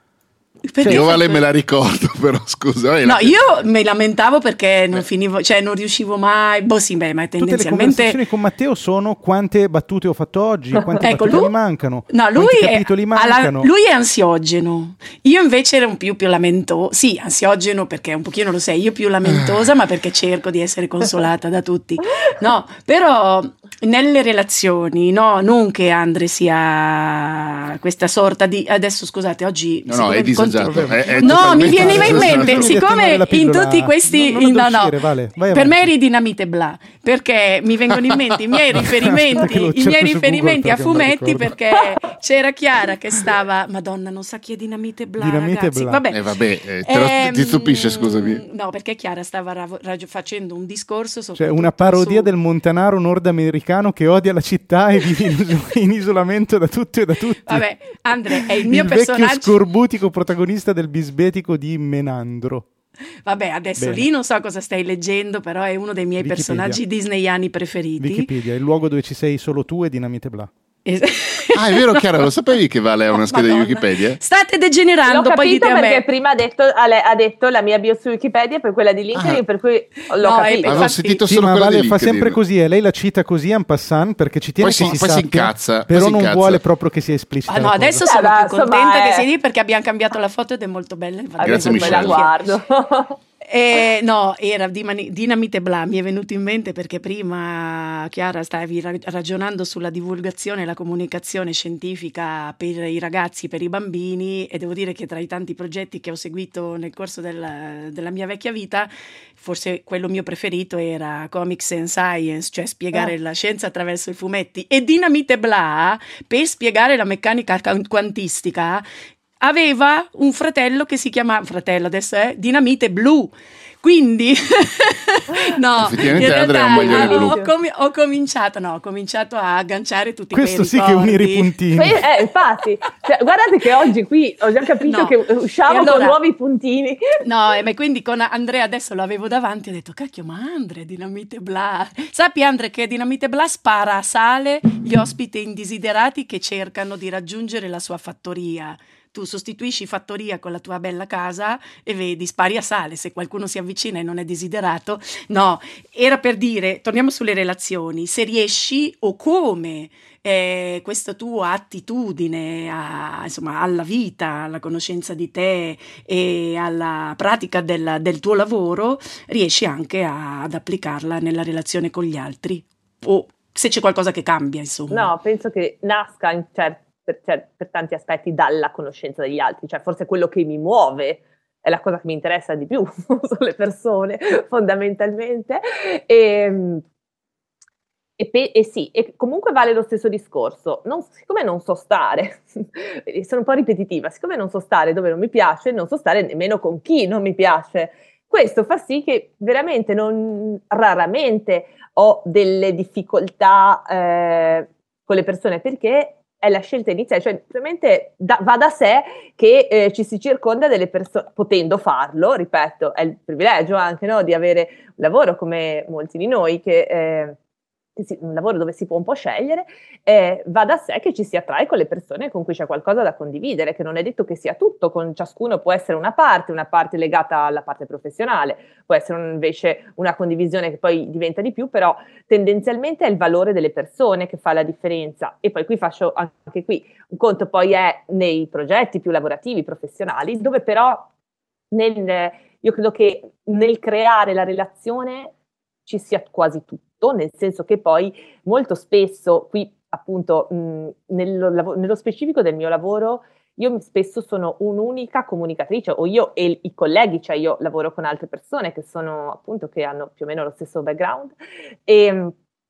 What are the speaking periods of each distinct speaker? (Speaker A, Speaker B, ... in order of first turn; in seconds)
Speaker A: 0.7-1.4, 3.0-8.2, 11.0-11.5, 12.1-35.0, 35.5-52.3, 57.4-59.6, 63.2-68.3, 70.8-72.0, 73.2-76.0, 80.2-81.2, 87.5-92.5, 93.5-118.8, 119.4-132.0, 134.8-136.2, 137.2-175.1
Speaker B: 0.8-1.1, 7.4-13.7, 30.6-35.9, 39.1-41.6, 45.2-46.0, 51.4-57.7, 58.4-62.7, 63.8-64.1, 66.2-66.8, 68.0-70.5, 81.3-88.0, 130.3-132.0
Speaker C: 0.9-3.4, 29.9-32.8, 46.1-48.4, 71.5-74.2, 79.2-79.4, 80.7-82.4, 84.6-86.6, 91.4-92.2, 125.8-127.4
Speaker D: 75.1-80.9, 88.0-89.3, 91.4-93.2, 125.4-127.5, 131.8-137.0, 174.9-186.8, 188.2-217.4, 218.0-241.1, 241.7-245.3, 245.9-262.4